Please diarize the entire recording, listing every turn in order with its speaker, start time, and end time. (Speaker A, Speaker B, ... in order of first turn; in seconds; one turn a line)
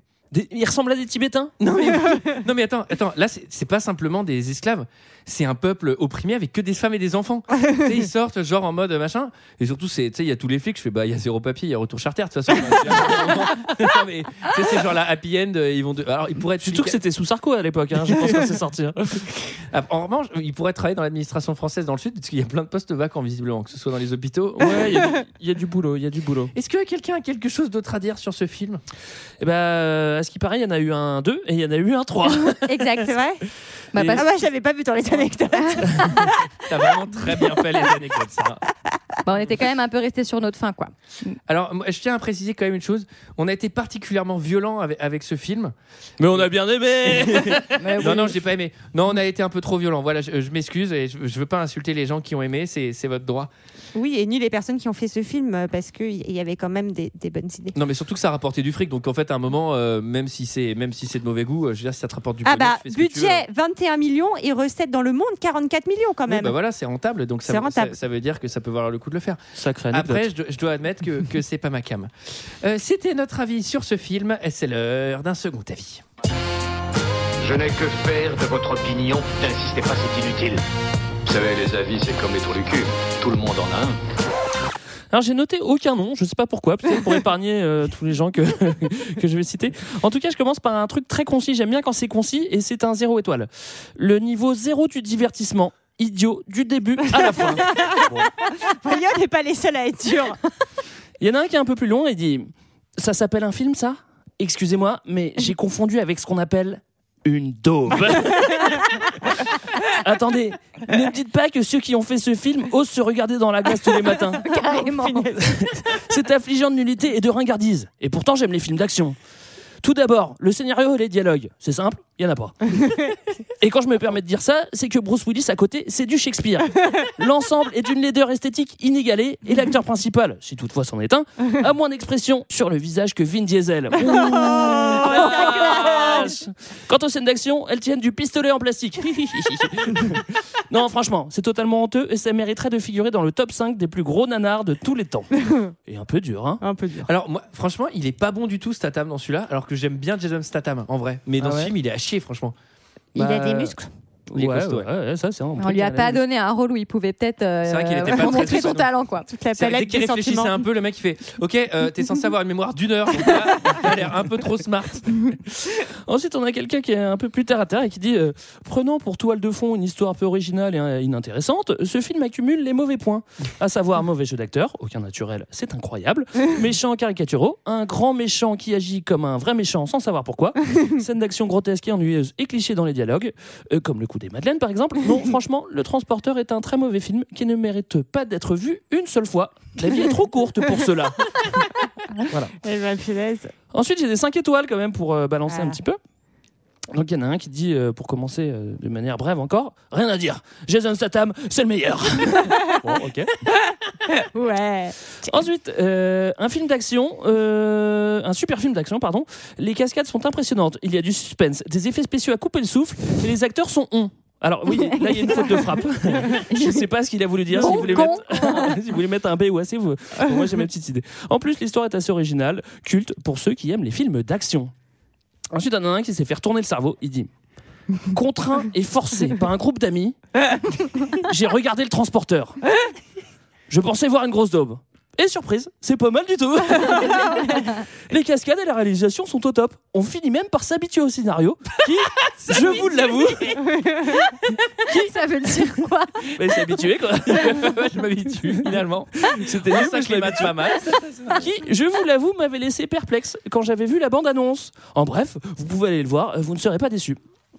Speaker A: 0.3-1.5
Speaker B: 1.6-17.0
Speaker C: 1.9-2.4
Speaker A: 16.6-19.2
Speaker B: 19.7-24.8
Speaker A: 24.6-26.5
Speaker B: 26.5-28.8
Speaker A: 29.4-32.9
Speaker D: 32.2-33.1
Speaker C: 33.0-33.4
Speaker D: 33.9-34.3
Speaker B: 33.9-34.2
Speaker C: 34.2-36.5
Speaker B: 36.6-38.6
Speaker D: 39.2-41.3
Speaker B: 41.5-45.7
Speaker A: 46.2-48.2
Speaker B: 47.3-53.5
Speaker D: 47.8-48.4
Speaker C: 53.9-57.7
Speaker B: 57.7-63.4
Speaker C: 62.4-66.5
Speaker B: 66.3-69.4
Speaker C: 67.4-68.0
Speaker A: 69.5-70.3
Speaker B: 69.9-72.1
Speaker B: 72.6-76.0
Speaker E: 77.4-80.6
Speaker E: 81.2-84.0
Speaker A: 85.1-98.3
Speaker C: 97.2-100.4
Speaker A: 101.2-108.9
Speaker A: 109.9-114.4
Speaker D: 114.4-115.3
Speaker C: 114.5-115.8
Speaker A: 115.4-119.2
Speaker A: 119.8-122.9
Speaker A: 123.6-145.3
Speaker C: 134.1-135.8
Speaker D: 135.0-136.3
Speaker A: 145.9-146.6
Speaker C: 146.6-147.1
Speaker B: 147.1-152.5
Speaker A: 151.4-151.7
Speaker A: 153.2-153.8
Speaker C: 153.2-153.9
Speaker A: 154.3-156.2
Speaker B: 154.3-154.9
Speaker D: 155.6-159.3
Speaker B: 157.6-158.9
Speaker C: 159.3-160.6
Speaker B: 159.5-165.2
Speaker A: 165.6-191.7
Speaker A: 192.2-192.5
Speaker C: 192.6-193.5
Speaker A: 193.7-196.0
Speaker C: 195.5-195.8
Speaker A: 196.9-203.3
Speaker C: 204.1-205.4
Speaker A: 205.3-224.7
Speaker D: 214.7-215.7
Speaker D: 217.6-218.8
Speaker C: 217.6-218.1
Speaker A: 225.5-227.3
Speaker A: 228.1-230.2
Speaker A: 231.2-232.6
Speaker A: 233.7-243.6
Speaker B: 242.2-242.8
Speaker C: 243.7-244.1
Speaker D: 244.9-246.3
Speaker A: 246.4-247.8
Speaker B: 247.3-251.4
Speaker A: 249.2-250.8
Speaker A: 251.3-257.2